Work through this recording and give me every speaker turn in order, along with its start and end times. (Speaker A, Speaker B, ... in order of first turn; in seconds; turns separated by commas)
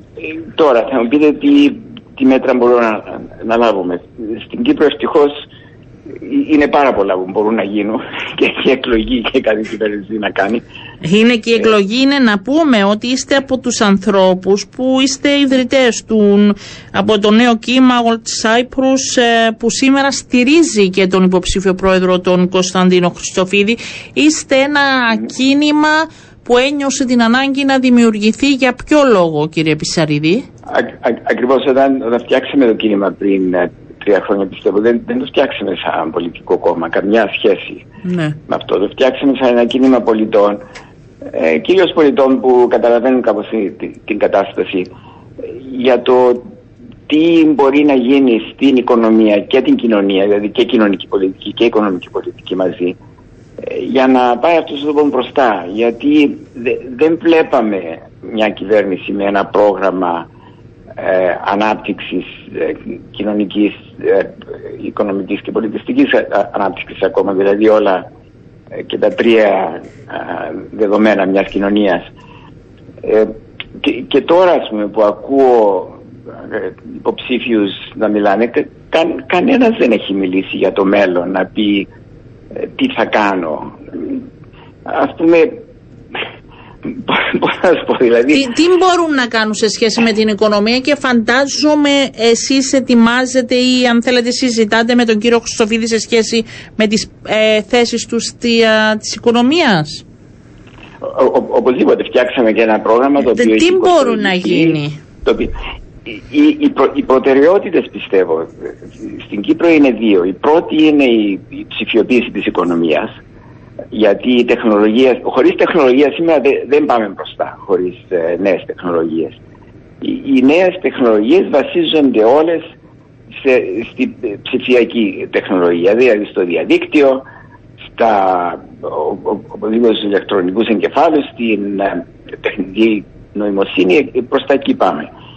Speaker A: 0.2-5.5, Speaker A: 6.2-10.6, Speaker B: 11.0-30.4, Speaker A: 30.7-37.8, Speaker B: 38.0-38.4, Speaker A: 38.5-40.6, Speaker A: 41.3-46.4, Speaker A: 47.1-53.0, Speaker A: 53.6-60.3, Speaker A: 61.0-68.1, Speaker A: 68.8-72.1, Speaker A: 73.0-81.9, Speaker A: 82.6-84.2, Speaker A: 84.8-85.6, Speaker A: 86.9-88.5, Speaker B: 88.3-100.0, Speaker A: 101.0-105.5, Speaker B: 103.2-105.0, Speaker A: 106.1-113.1, Speaker A: 113.9-119.4, Speaker A: 120.0-122.6, Speaker A: 123.4-127.2, Speaker A: 127.9-135.1